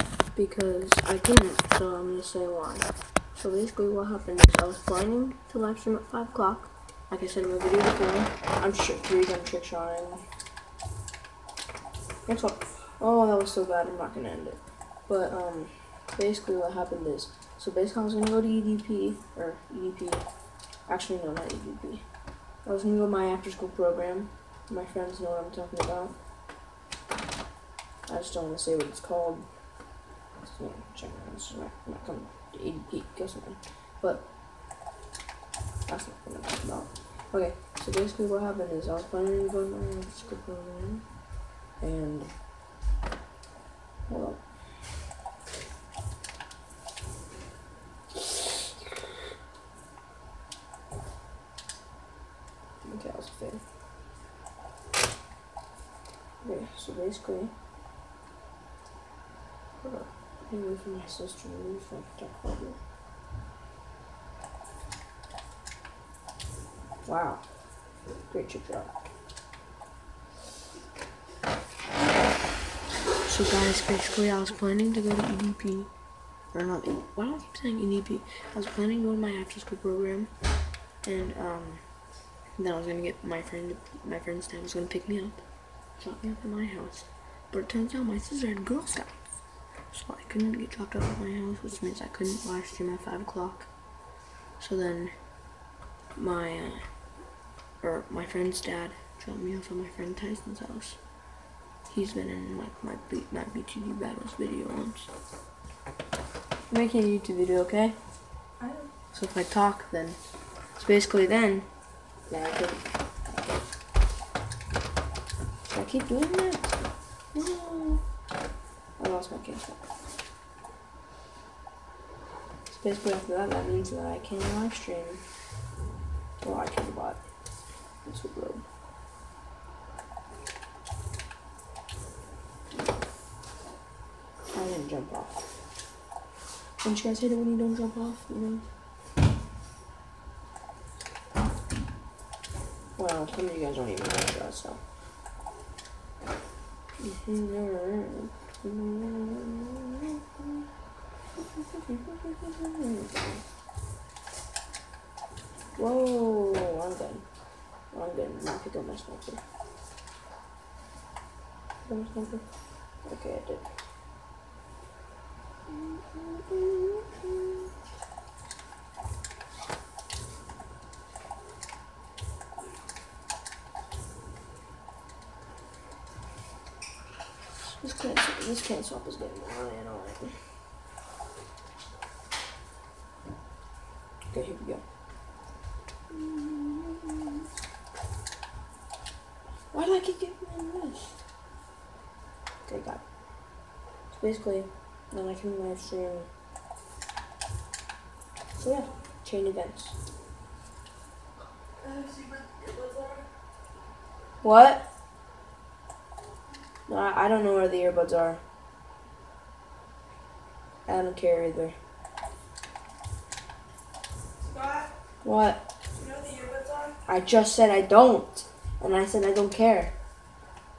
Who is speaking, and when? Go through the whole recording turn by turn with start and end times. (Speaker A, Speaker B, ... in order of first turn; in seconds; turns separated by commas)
Speaker A: 0.3-10.2, Speaker A: 12.3-20.2, Speaker A: 20.9-22.1, Speaker A: 22.6-26.1, Speaker A: 28.1-29.5, Speaker A: 30.4-34.3, Speaker A: 35.9-41.0, Speaker A: 41.8-42.3, Speaker A: 44.1-44.4, Speaker A: 52.8-53.6, Speaker A: 56.4-57.5, Speaker A: 59.8-62.8, Speaker A: 67.0-67.5, Speaker A: 68.3-69.1, Speaker A: 73.2-75.9, Speaker A: 76.5-80.3, Speaker A: 81.0-81.8, Speaker A: 82.6-85.4, Speaker A: 86.0-89.3, Speaker A: 89.9-93.7, Speaker A: 94.6-95.1, Speaker A: 96.2-96.8, Speaker A: 97.8-101.0, Speaker A: 101.9-105.1, Speaker A: 106.7-108.0, Speaker B: 108.6-108.9, Speaker A: 109.1-110.2, Speaker A: 110.8-111.7, Speaker A: 112.3-113.5, Speaker A: 115.7-116.8, Speaker A: 117.3-118.0, Speaker A: 119.0-119.8, Speaker A: 122.7-125.2, Speaker A: 126.4-127.2, Speaker A: 128.0-128.6, Speaker A: 134.5-135.4, Speaker A: 136.8-138.7, Speaker A: 143.0-144.8, Speaker A: 147.0-150.7, Speaker A: 151.4-153.4, Speaker A: 155.8-157.2, Speaker A: 157.9-159.4, Speaker A: 161.9-162.4, Speaker A: 163.0-163.7, Speaker A: 165.7-167.7, Speaker A: 177.6-180.4, Speaker A: 184.3-184.8, Speaker A: 186.1-187.4, Speaker A: 189.7-191.2, Speaker A: 192.7-193.0, Speaker A: 194.1-196.3, Speaker A: 198.6-200.0, Speaker B: 201.8-203.3, Speaker A: 204.4-204.9, Speaker A: 206.9-208.4, Speaker A: 210.9-211.8, Speaker B: 214.4-214.9, Speaker A: 215.2-215.7, Speaker B: 215.9-217.0, Speaker A: 217.1-219.9